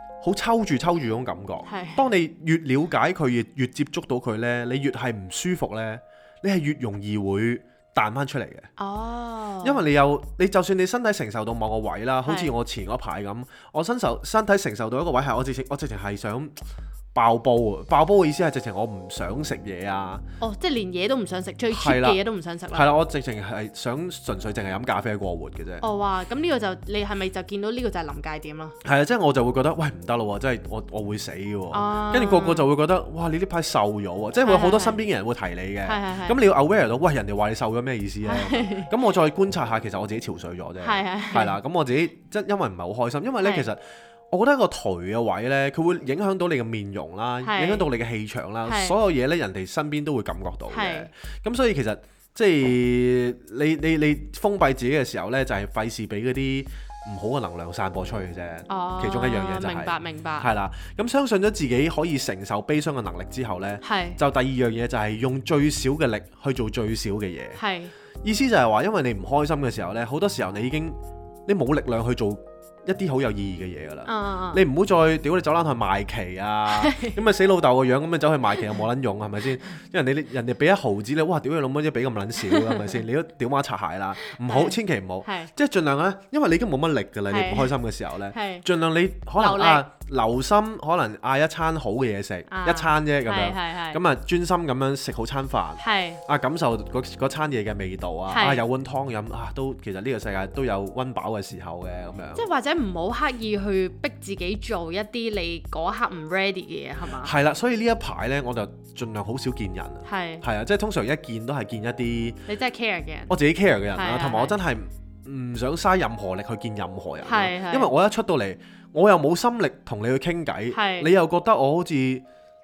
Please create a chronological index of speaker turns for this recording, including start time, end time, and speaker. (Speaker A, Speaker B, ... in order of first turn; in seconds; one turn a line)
Speaker A: 0.2-8.7
Speaker B: 1.6-2.0
Speaker B: 8.8-9.8
Speaker A: 9.6-16.5
Speaker B: 12.2-12.5
Speaker A: 17.1-20.2
Speaker B: 20.4-22.9
Speaker A: 21.7-22.2
Speaker A: 22.7-25.9
Speaker B: 25.8-28.8
Speaker A: 28.8-67.6
Speaker B: 31.7-32.7
Speaker B: 34.4-35.0
Speaker B: 35.9-36.4
Speaker B: 38.2-38.9
Speaker B: 40.8-41.6
Speaker B: 43.4-43.7
Speaker B: 47.4-47.9
Speaker B: 48.6-48.9
Speaker B: 50.7-51.1
Speaker B: 58.7-60.5
Speaker B: 63.8-64.2
Speaker B: 67.6-67.9
Speaker A: 68.2-102.4
Speaker B: 74.0-74.6
Speaker B: 76.8-77.2
Speaker B: 82.5-83.0
Speaker B: 84.4-85.5
Speaker B: 87.3-87.8
Speaker B: 88.3-88.6
Speaker B: 89.4-89.9
Speaker B: 92.5-94.0
Speaker B: 95.8-96.2
Speaker B: 98.3-98.6
Speaker B: 102.3-107.3
Speaker A: 107.2-112.4
Speaker B: 110.0-110.4
Speaker B: 112.5-113.3
Speaker A: 113.3-122.2
Speaker B: 113.9-114.6
Speaker B: 117.2-117.9
Speaker B: 120.7-121.1